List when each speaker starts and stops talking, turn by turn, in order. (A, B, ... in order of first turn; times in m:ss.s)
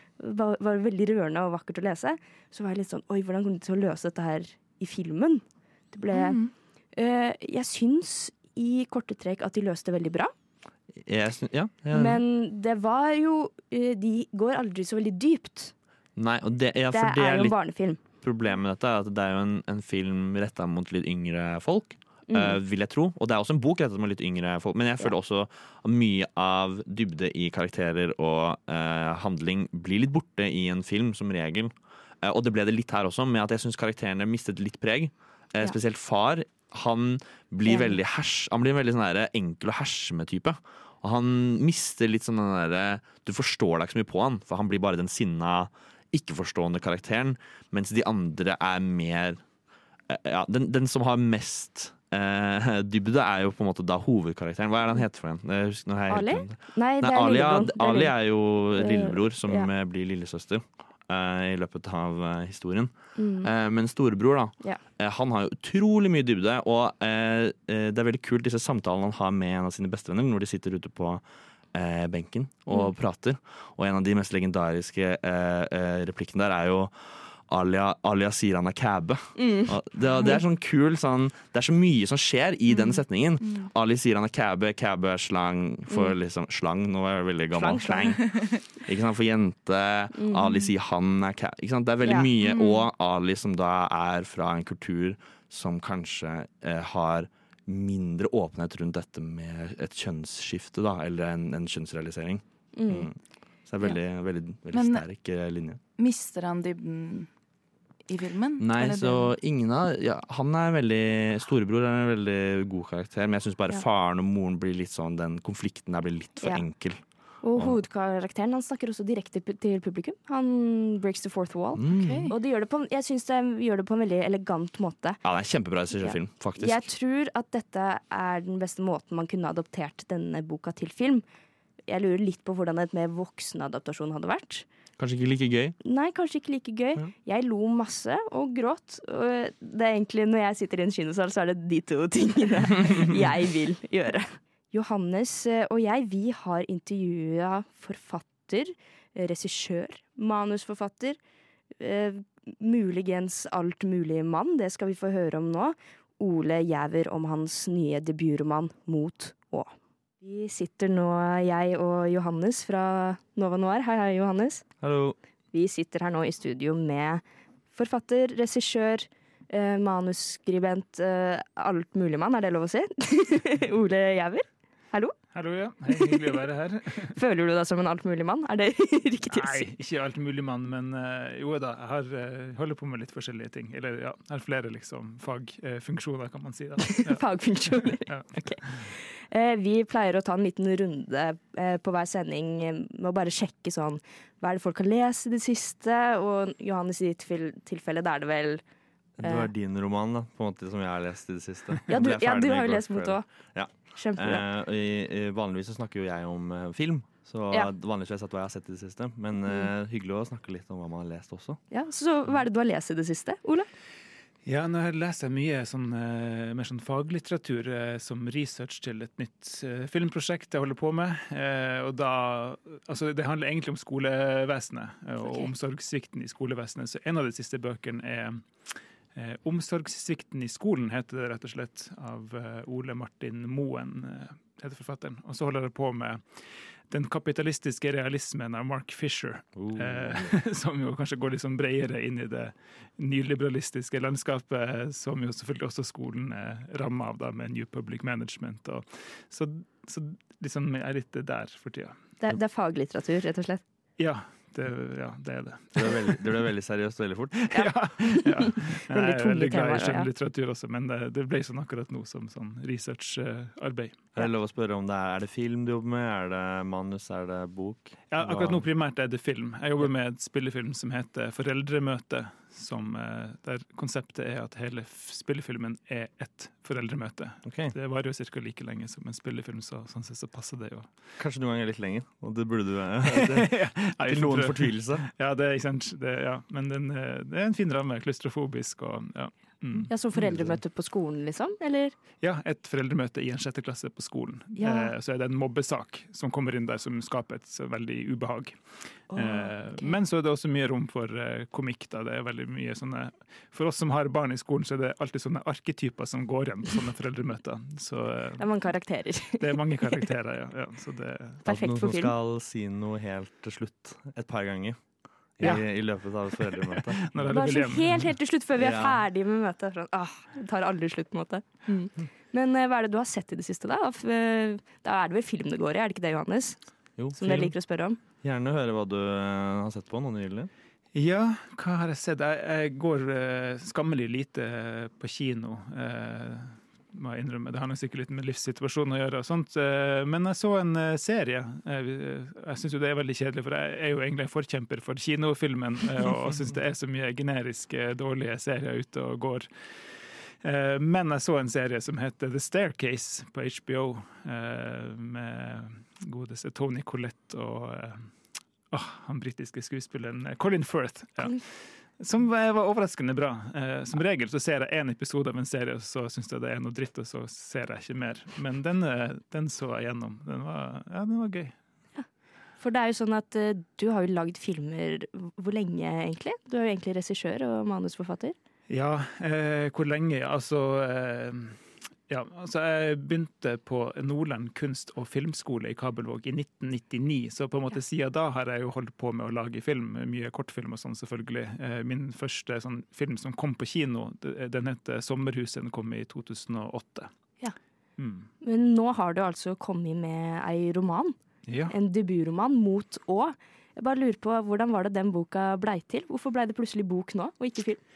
0:00.2-0:06.4 A
0:06.1-0:06.5 B
0:06.9-0:10.3 A
0:11.0-0:12.2 C
0:11.9-0:15.7 A
0:16.2-0:17.6 C
0:16.9-0:18.0 A
0:18.2-0:49.4 C
0:22.3-0:22.6 A
0:37.6-0:38.0 A
0:50.1-1:11.2 C
0:56.1-0:58.1 A
0:58.7-0:59.7 A
1:03.2-1:03.5 A
1:11.7-1:45.8 C
1:19.4-1:19.7 A
1:25.9-1:26.1 A
1:27.6-1:28.1 A
1:30.1-1:30.6 A
1:32.0-1:32.3 A
1:32.4-1:32.8 B
1:42.7-1:43.1 A
1:44.7-1:45.0 B
1:46.0-1:47.3 B
1:48.1-1:49.3 B
1:48.6-1:57.0 C
1:57.4-2:05.2 A
2:01.8-2:02.3 C
2:01.9-2:02.3 B
2:05.2-2:06.9 C
2:05.9-2:11.2 A
2:11.9-2:14.6 A
2:15.0-2:15.8 C
2:15.8-2:31.2 A
2:31.8-2:44.6 A
2:44.8-2:45.2 C
2:45.5-2:47.2 A
2:47.7-2:55.2 A
2:55.3-2:57.2 D
2:55.9-2:56.2 A
2:57.1-2:59.7 A
2:59.3-3:08.8 D
3:06.9-3:18.6 A
3:19.2-3:31.6 C
3:19.2-3:19.5 A
3:21.9-3:23.2 A
3:23.9-3:24.4 A
3:31.7-3:33.7 A
3:34.4-4:12.0 D
3:45.2-3:45.5 B
3:59.6-4:00.3 C
4:12.2-4:13.6 A
4:14.0-4:16.2 D
4:15.8-4:17.4 C
4:17.5-4:24.1 D
4:17.5-4:20.1 A
4:24.1-4:28.6 C
4:28.1-4:41.0 D
4:37.4-4:37.7 C
4:41.2-4:45.1 C
4:43.1-4:49.9 D
4:49.9-4:51.9 A
4:50.1-4:50.6 C
4:52.2-5:08.4 D
4:54.6-4:54.9 A
4:59.1-4:59.9 A
5:08.4-5:10.0 A
5:09.4-5:11.4 D
5:11.4-5:12.1 A
5:11.4-5:14.8 C
5:15.4-5:17.1 C
5:15.4-5:18.1 D
5:17.2-5:26.6 A
5:18.6-5:19.0 C
5:27.0-5:27.5 C
5:27.1-5:28.0 A
5:28.2-5:30.5 C
5:30.9-5:58.1 D
5:58.7-6:11.5 D
6:12.6-6:18.4 A
6:18.7-6:37.1 D
6:38.0-6:38.3 D
6:38.4-6:41.2 A
6:41.5-6:41.7 D
6:41.7-6:47.8 A